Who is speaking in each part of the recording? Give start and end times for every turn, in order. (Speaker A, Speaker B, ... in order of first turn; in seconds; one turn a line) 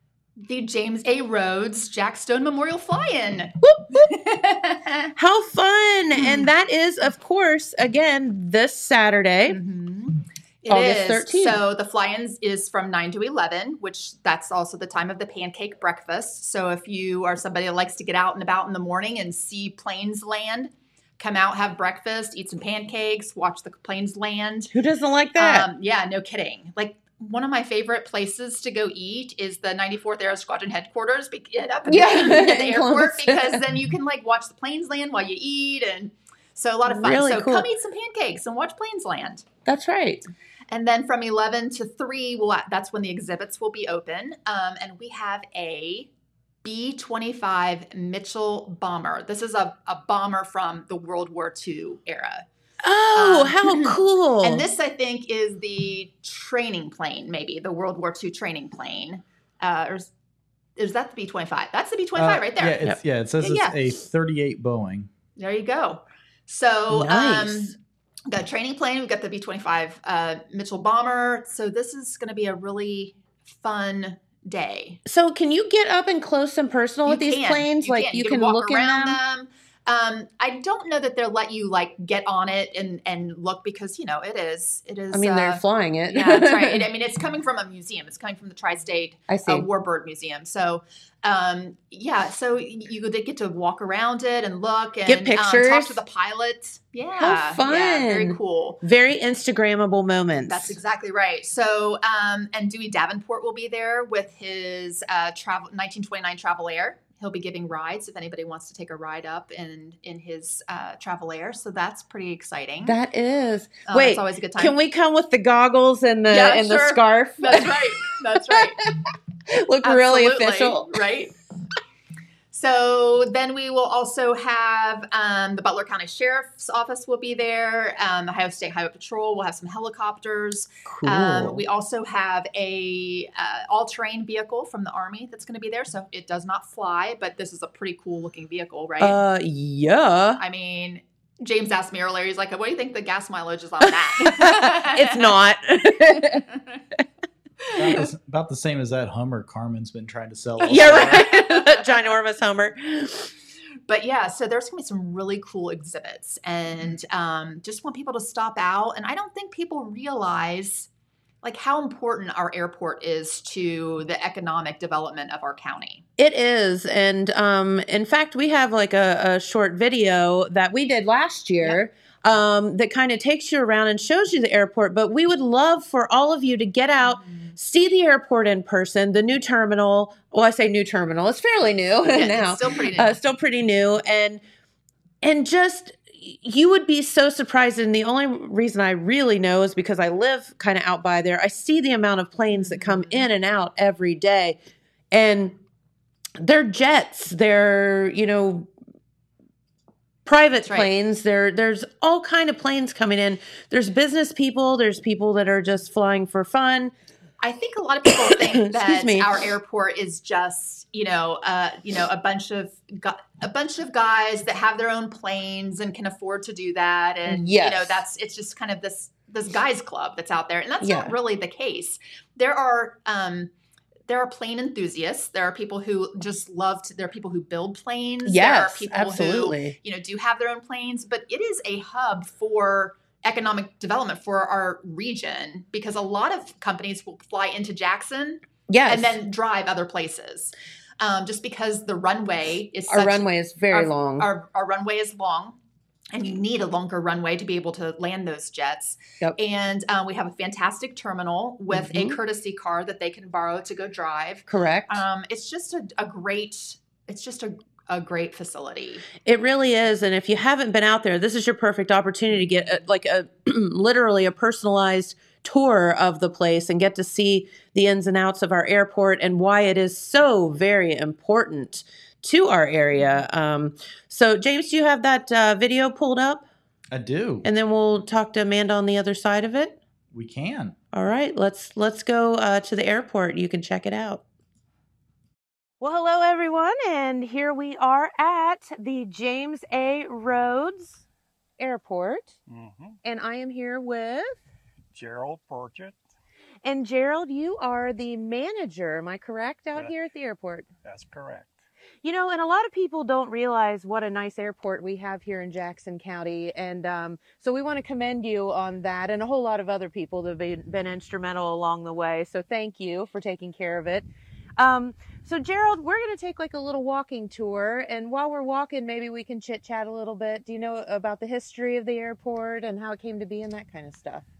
Speaker A: 0.4-5.1
Speaker B: 3.6-4.1
Speaker B: 5.2-9.6
Speaker A: 6.1-6.5
Speaker A: 9.5-24.7
Speaker B: 10.7-11.6
Speaker B: 24.7-25.7
Speaker A: 25.4-39.5
Speaker B: 31.9-33.6
Speaker B: 36.9-37.7
Speaker B: 39.6-40.2
Speaker A: 40.7-46.1
Speaker A: 46.6-52.4
Speaker B: 52.8-54.6
Speaker A: 53.1-60.1
Speaker A: 60.8-62.8
Speaker C: 62.1-65.1
Speaker A: 63.4-63.8
Speaker A: 65.4-67.8
Speaker B: 66.9-67.7
Speaker A: 68.3-75.0
Speaker B: 75.0-79.2
Speaker A: 77.0-98.8
Speaker B: 85.1-86.9
Speaker B: 89.3-89.7
Speaker B: 95.0-96.0
Speaker B: 97.2-100.8
Speaker A: 100.5-113.0
Speaker B: 112.8-118.8
Speaker A: 113.9-114.8
Speaker A: 116.3-118.8
Speaker B: 119.5-121.0
Speaker A: 119.8-121.3
Speaker A: 122.5-139.2
Speaker B: 130.8-131.6
Speaker B: 139.0-140.4
Speaker A: 140.4-145.3
Speaker B: 143.8-146.5
Speaker C: 147.7-151.2
Speaker A: 150.6-151.9
Speaker B: 150.6-153.3
Speaker A: 153.9-160.9
Speaker A: 161.4-166.0
Speaker B: 166.2-184.4
Speaker A: 177.0-177.6
Speaker A: 182.0-183.2
Speaker B: 185.2-194.6
Speaker A: 192.5-193.3
Speaker B: 195.1-195.6
Speaker B: 196.4-198.7
Speaker B: 200.2-206.9
Speaker A: 200.6-200.9
Speaker A: 207.4-223.5
Speaker B: 208.1-209.5
Speaker B: 217.3-218.0
Speaker B: 220.8-221.2
Speaker A: 224.1-245.6
Speaker B: 228.2-229.8
Speaker B: 238.7-239.2
Speaker B: 242.9-244.3
Speaker A: 246.1-259.1
Speaker B: 251.7-252.2
Speaker B: 254.5-255.0
Speaker B: 259.2-276.4
Speaker C: 276.9-277.4
Speaker B: 277.4-279.8
Speaker C: 280.1-280.8
Speaker B: 280.9-284.2
Speaker B: 285.8-291.0
Speaker B: 291.6-292.3
Speaker D: 292.5-293.0
Speaker B: 293.0-294.4
Speaker D: 294.9-295.9
Speaker B: 296.6-300.7
Speaker D: 300.8-301.6
Speaker B: 302.0-314.1
Speaker B: 314.6-324.2